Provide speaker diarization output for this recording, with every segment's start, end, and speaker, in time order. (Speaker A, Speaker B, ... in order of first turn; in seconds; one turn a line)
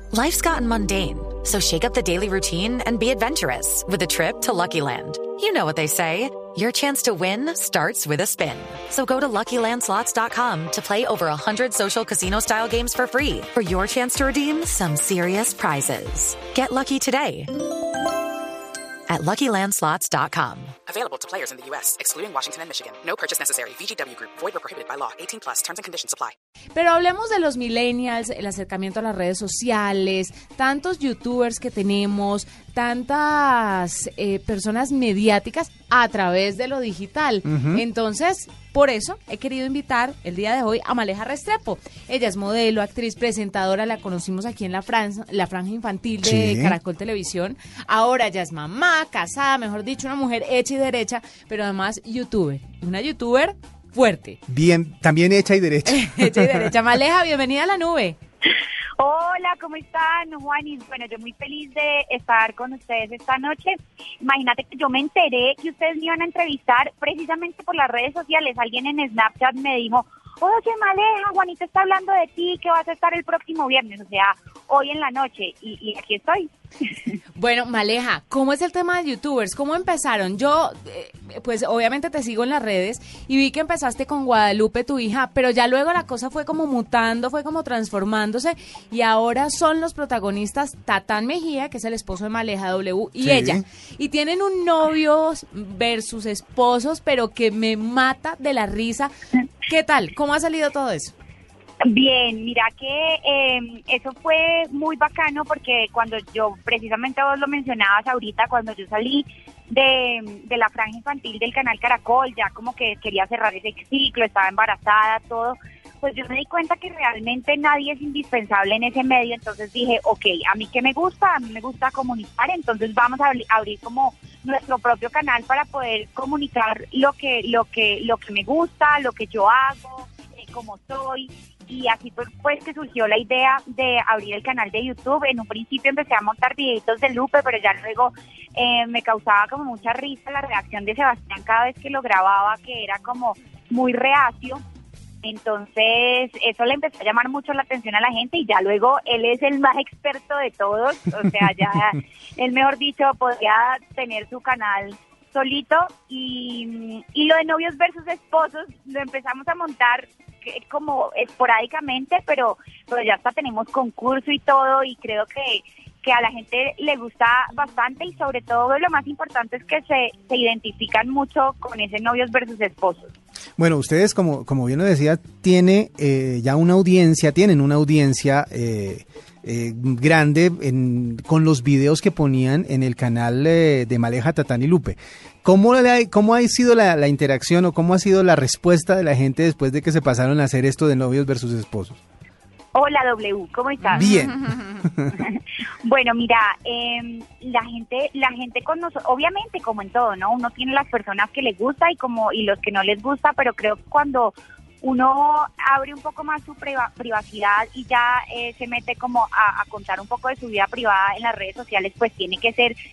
Speaker A: 0.1-17.5
Speaker A: 19.1-20.7
Speaker B: 20.9-26.3
Speaker C: 26.7-54.4
Speaker D: 37.4-37.8
Speaker D: 46.2-46.8
Speaker D: 54.5-56.5
Speaker C: 55.8-58.2
Speaker E: 59.0-77.1
Speaker C: 77.3-99.1
Speaker D: 93.2-93.6
Speaker C: 99.7-101.2
Speaker E: 101.8-144.6
Speaker E: 145.2-173.1
Speaker D: 173.6-192.0
Speaker E: 192.7-194.1
Speaker C: 193.8-194.8
Speaker D: 193.9-195.1
Speaker E: 195.2-212.8